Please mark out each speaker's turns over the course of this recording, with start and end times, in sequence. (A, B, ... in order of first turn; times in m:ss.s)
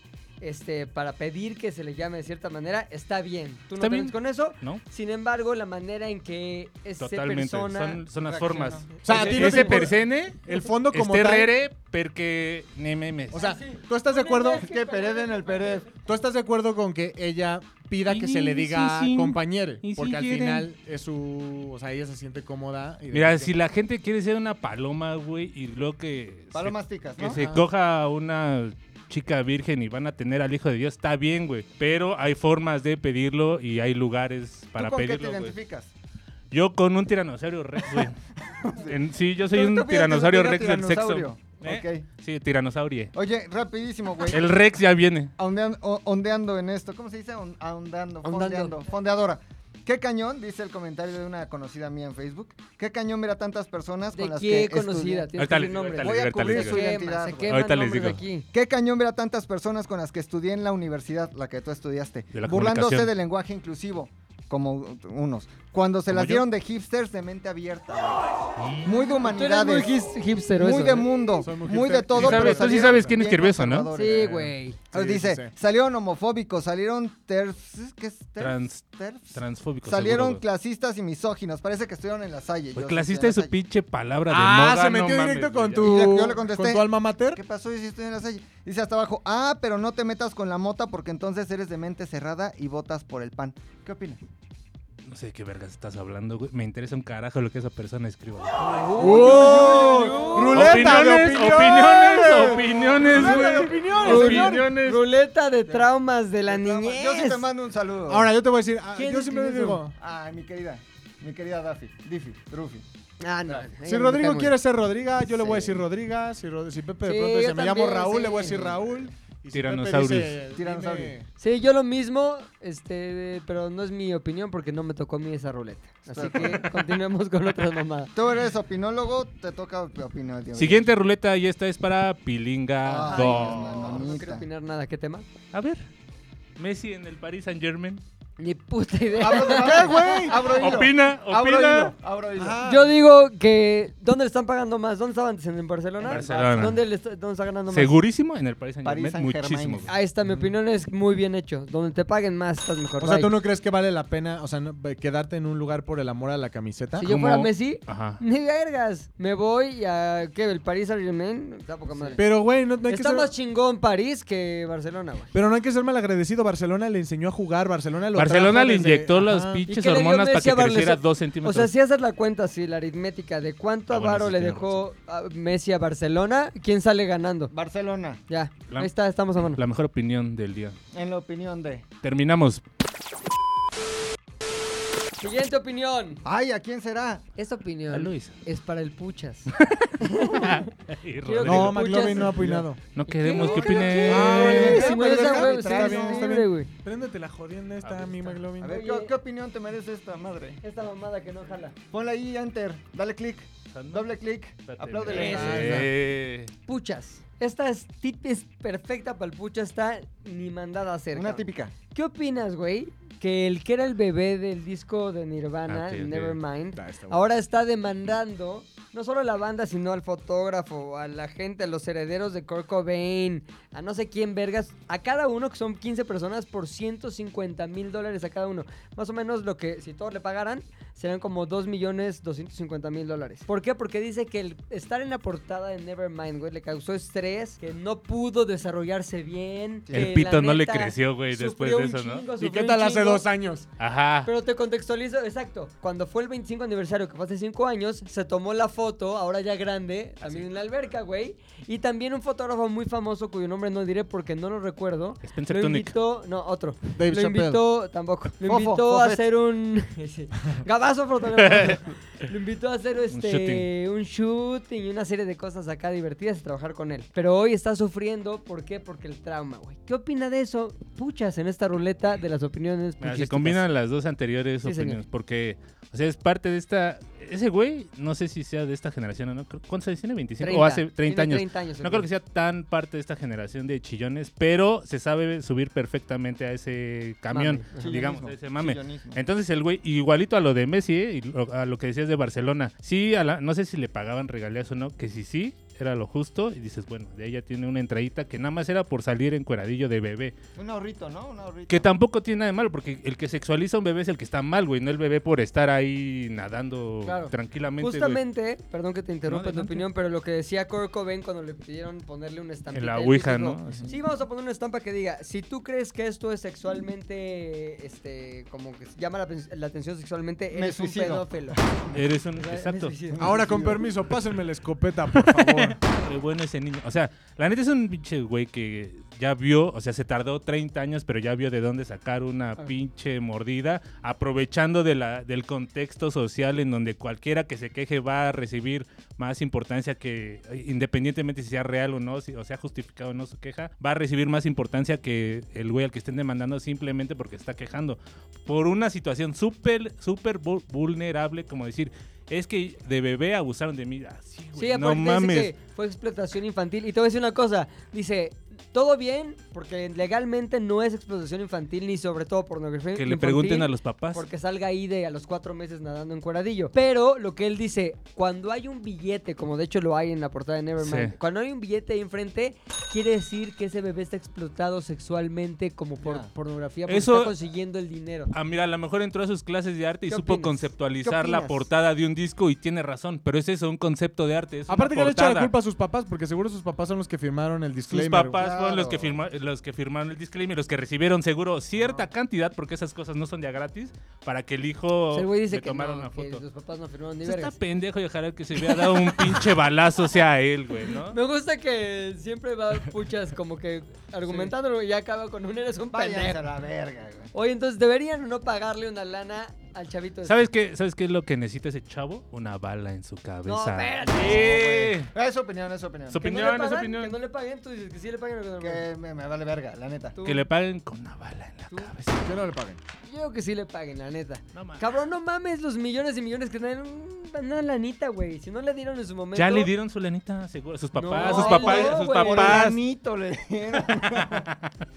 0:00.4-0:08.0 A
0:03.8-0:04.8 B
0:07.0-0:13.4 B
0:08.3-0:09.8 C
0:09.0-0:11.5 D
0:09.0-0:09.9 A
0:13.3-0:14.7 D
0:13.3-0:15.9 A
0:14.6-0:15.9 C
0:16.0-0:23.5 D
0:18.1-0:20.7 B
0:23.1-0:35.6 B
0:26.5-0:27.4 C
0:27.2-0:27.7 D
0:34.8-0:35.9 C
0:36.5-0:38.2 B
0:38.7-0:43.1 B
0:39.5-0:42.0 C
0:43.2-0:44.4 C
0:44.3-0:45.3 B
0:45.4-0:55.3 C
0:48.2-0:48.8 A
0:54.1-0:58.5 A
0:55.4-0:58.2 B
0:56.0-0:57.6 C
0:58.5-1:08.2 C
1:02.3-1:03.1 B
1:06.1-1:06.5 B
1:08.6-1:08.9 B
1:08.8-1:09.9 C
1:09.2-1:11.1 A
1:10.6-1:23.5 C
1:11.4-1:13.0 D
1:12.1-1:13.9 B
1:13.9-1:14.8 A
1:14.9-1:15.5 D
1:18.4-1:20.4 B
1:22.8-1:25.9 B
1:24.3-1:27.4 D
1:25.8-1:34.2 C
1:35.1-1:38.6 B
1:38.6-1:40.7 A
1:38.9-1:41.0 C
1:39.0-1:44.7 D
1:40.5-1:45.0 B
1:43.2-1:47.4 A
1:46.5-1:48.3 C
1:48.1-1:50.0 D
1:49.0-1:49.8 A
1:50.0-1:52.8 C
1:53.2-1:54.6 A
1:53.8-2:01.3 D
1:55.4-1:55.8 C
1:57.0-1:58.8 A
1:58.4-1:58.9 C
1:59.5-2:00.4 B
2:00.5-2:01.2 C
2:01.4-2:08.1 A
2:06.1-2:06.7 C
2:06.3-2:06.6 B
2:08.2-2:10.9 C
2:10.6-2:14.0 B
2:12.8-2:14.5 C
2:13.0-2:15.2 A
2:15.5-2:15.9 B
2:16.6-2:18.0 B
2:18.4-2:20.3 A
2:19.2-2:22.6 C
2:19.4-2:20.5 D
2:20.3-2:22.0 B
2:22.4-2:22.9 D
2:22.6-2:28.0 A
2:26.0-2:26.7 C
2:26.0-2:26.8 B
2:27.7-2:29.9 B
2:28.8-2:29.9 C
2:29.9-2:33.4 A
2:33.0-2:37.1 D
2:37.0-2:45.3 A
2:37.0-2:38.2 B
2:42.2-2:43.3 D
2:45.3-2:49.7 D
2:48.2-2:51.7 B
2:49.7-2:57.5 A
2:53.9-2:54.8 B
2:57.5-2:58.2 C
2:58.3-2:59.6 A
2:59.5-3:00.8 B
3:00.9-3:01.8 C
3:02.0-3:02.6 B
3:05.2-3:06.2 A
3:06.2-3:07.2 C
3:07.4-3:10.7 A
3:07.9-3:08.4 B
3:09.6-3:12.3 B
3:11.2-3:16.7 A
3:11.4-3:12.8 D
3:12.9-3:14.7 B
3:13.3-3:16.4 C
3:14.0-3:18.8 D
3:17.8-3:18.4 B
3:18.6-3:20.6 C
3:18.6-3:19.1 A
3:20.6-3:21.8 A
3:21.9-3:25.8 C
3:23.7-3:24.1 B
3:24.7-3:26.5 B
3:25.1-3:25.9 D
3:25.1-3:25.8 A
3:26.7-4:03.3 A
3:31.1-3:31.8 C
3:35.7-3:36.4 B
3:36.7-3:37.3 D
3:59.9-4:00.2 C
3:59.9-4:02.2 B
4:02.4-4:03.7 D
4:03.8-4:04.3 B
4:04.2-4:33.6 A
4:10.2-4:10.5 B
4:15.2-4:15.9 B
4:17.0-4:17.6 D
4:18.4-4:19.2 C
4:21.4-4:21.8 B
4:23.1-4:23.7 B
4:33.0-5:00.4 B
4:34.6-4:35.0 A
4:40.4-4:42.1 A
4:47.3-4:48.0 A
4:47.8-4:49.2 C
5:00.6-5:01.9 C
5:01.7-5:08.2 B
5:07.0-5:21.6 A
5:09.3-5:09.8 B
5:12.7-5:13.9 B
5:13.7-5:14.0 C
5:20.5-5:22.0 C
5:21.9-5:23.0 B
5:22.4-5:23.4 A
5:23.1-5:23.9 C
5:23.2-5:25.8 D
5:25.1-5:55.5 B
5:54.6-6:18.3 A
6:03.0-6:04.3 B
6:10.8-6:11.1 B
6:16.0-6:16.3 C
6:16.9-6:17.3 B
6:18.3-6:25.5 B
6:20.1-6:21.6 A
6:24.7-6:28.4 D
6:27.9-6:36.4 B
6:28.4-6:29.2 C
6:35.1-6:37.6 A
6:37.2-6:41.2 B
6:38.6-6:39.5 A
6:40.9-6:46.4 A
6:44.3-6:44.5 C
6:45.9-6:47.3 C
6:47.3-6:50.4 A
6:50.2-6:55.1 B
6:53.4-6:54.6 A
6:54.1-6:56.3 C
6:56.1-6:57.2 B
6:56.2-6:58.9 A
6:58.6-7:00.2 C
7:00.1-7:00.5 A
7:00.2-7:02.4 B
7:02.2-7:02.8 D
7:03.1-7:09.7 A
7:04.5-7:04.8 B
7:09.4-7:12.8 B
7:11.0-7:12.6 A
7:11.2-7:14.5 C
7:13.8-7:14.7 B